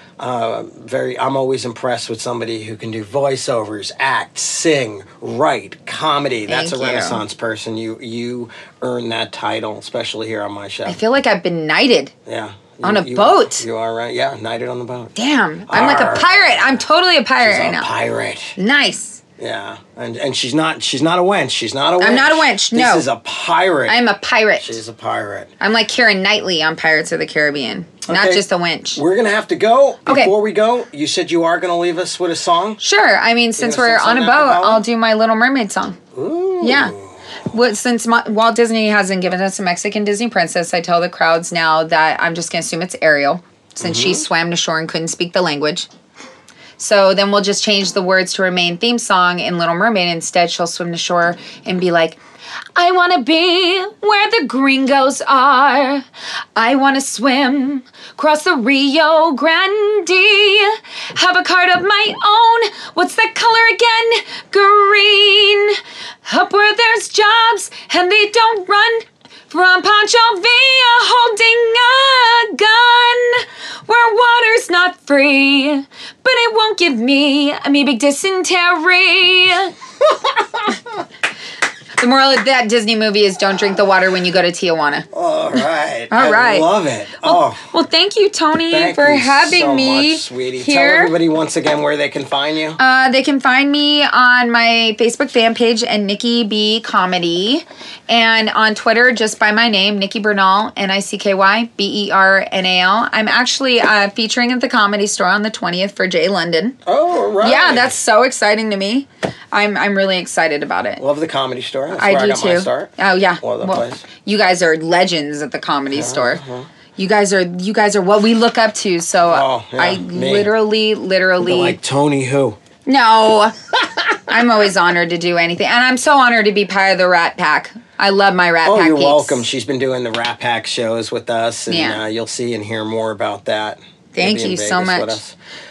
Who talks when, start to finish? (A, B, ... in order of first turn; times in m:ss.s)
0:00.2-0:11.0 A
0:06.5-0:07.2 B
0:10.8-0:12.1 B
0:12.2-0:15.1 A
0:12.8-0:13.6 B
0:15.2-0:17.9 B
0:15.7-0:16.8 A
0:17.4-0:18.5 A
0:18.6-0:19.2 B
0:19.4-0:24.0 A
0:22.0-0:23.0 B
0:23.9-0:24.8 B
0:24.6-0:25.5 A
0:25.6-0:29.0 B
0:28.1-0:28.4 A
0:29.0-0:32.8 A
0:30.0-0:30.3 B
0:32.8-0:36.0 B
0:33.6-0:34.8 A
0:36.1-0:37.2 A
0:36.6-0:36.9 B
0:37.5-0:45.9 B
0:43.8-0:44.2 A
0:46.8-0:52.2 B
0:52.8-0:56.0 B
0:56.6-1:19.7 B
1:20.0-1:20.8 A
1:22.0-1:25.1 B
1:25.1-1:27.7 A
1:26.1-1:26.7 B
1:27.2-1:31.1 B
1:28.7-1:32.8 A
1:32.8-1:46.8 B
1:46.8-1:47.9 A
1:47.4-1:51.0 B
1:51.0-1:54.0 A
1:52.0-1:56.4 B
1:55.9-1:56.7 A
1:57.0-2:01.8 B
1:59.3-2:00.5 A
2:01.4-2:02.6 A
2:02.8-2:03.6 B
2:04.2-2:09.4 B
2:08.6-2:15.4 A
2:11.7-2:12.0 B
2:14.1-2:15.2 B